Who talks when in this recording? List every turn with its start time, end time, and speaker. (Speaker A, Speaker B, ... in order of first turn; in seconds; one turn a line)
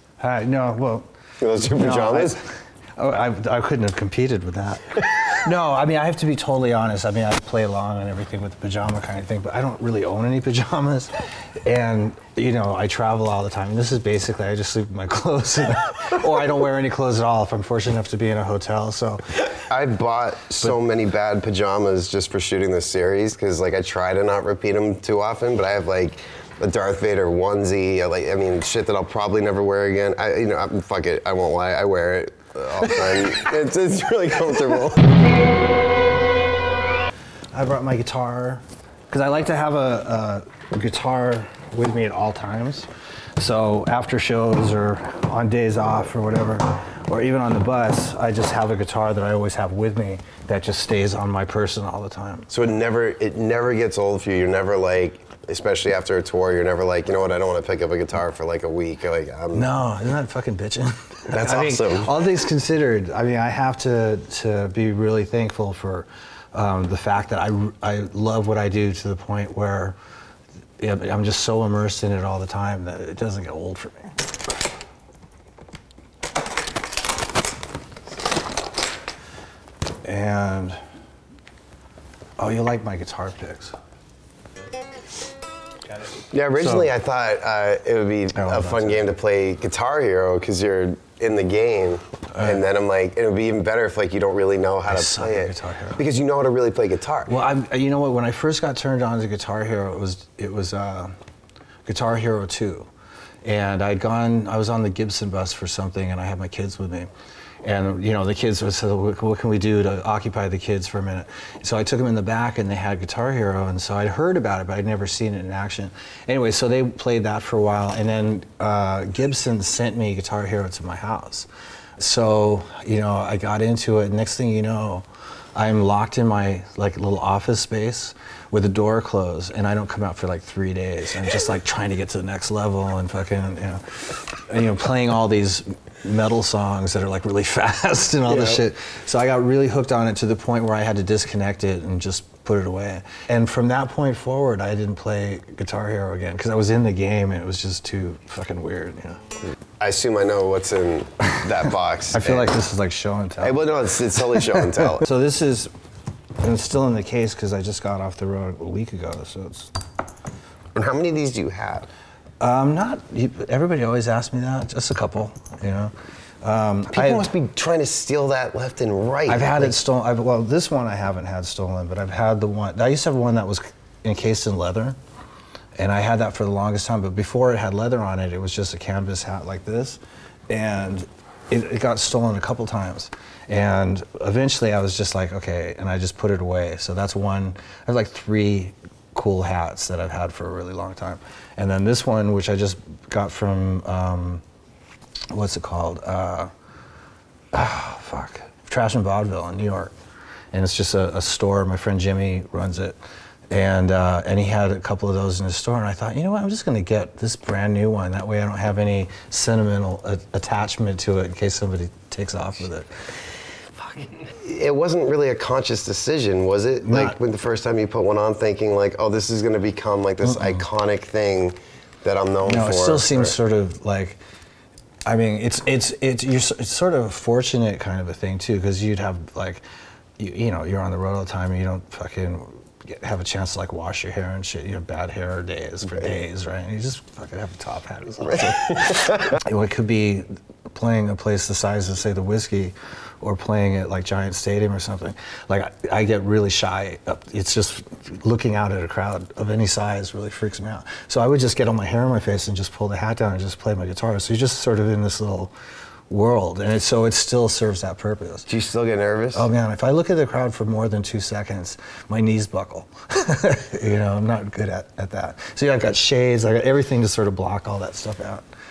Speaker A: 0.2-11.1
Speaker B: 1.4-2.4
Speaker A: 11.6-19.4
Speaker B: 19.7-35.0
Speaker A: 37.5-52.5
Speaker B: 52.5-59.7
Speaker A: 59.5-70.0
Speaker B: 61.3-62.1
Speaker A: 70.8-74.1
Speaker A: 80.0-80.8
Speaker A: 82.4-83.8
Speaker B: 86.3-97.3
Speaker A: 86.6-86.9
Speaker A: 88.3-89.1
Speaker A: 92.3-92.6
Speaker A: 94.9-96.0
Speaker A: 97.3-101.1
Speaker A: 101.9-102.9
Speaker A: 103.4-107.1
Speaker A: 107.6-149.2
Speaker B: 138.3-138.6
Speaker B: 149.8-152.5
Speaker A: 152.1-153.6
Speaker B: 153.4-155.1
Speaker A: 154.6-155.7
Speaker A: 156.4-159.7
Speaker B: 160.7-161.9
Speaker A: 162.4-167.3
Speaker B: 166.9-169.8
Speaker A: 169.3-175.0
Speaker A: 175.8-194.4
Speaker A: 195.3-196.5
Speaker A: 197.5-199.9
Speaker A: 200.5-203.0
Speaker A: 203.5-213.0
Speaker B: 214.4-223.4
Speaker A: 216.8-217.2
Speaker A: 220.2-220.6
Speaker A: 222.4-224.2
Speaker A: 225.1-229.6
Speaker A: 230.2-255.5
Speaker B: 238.4-239.1
Speaker A: 256.1-258.5
Speaker B: 258.5-259.5
Speaker A: 259.4-268.5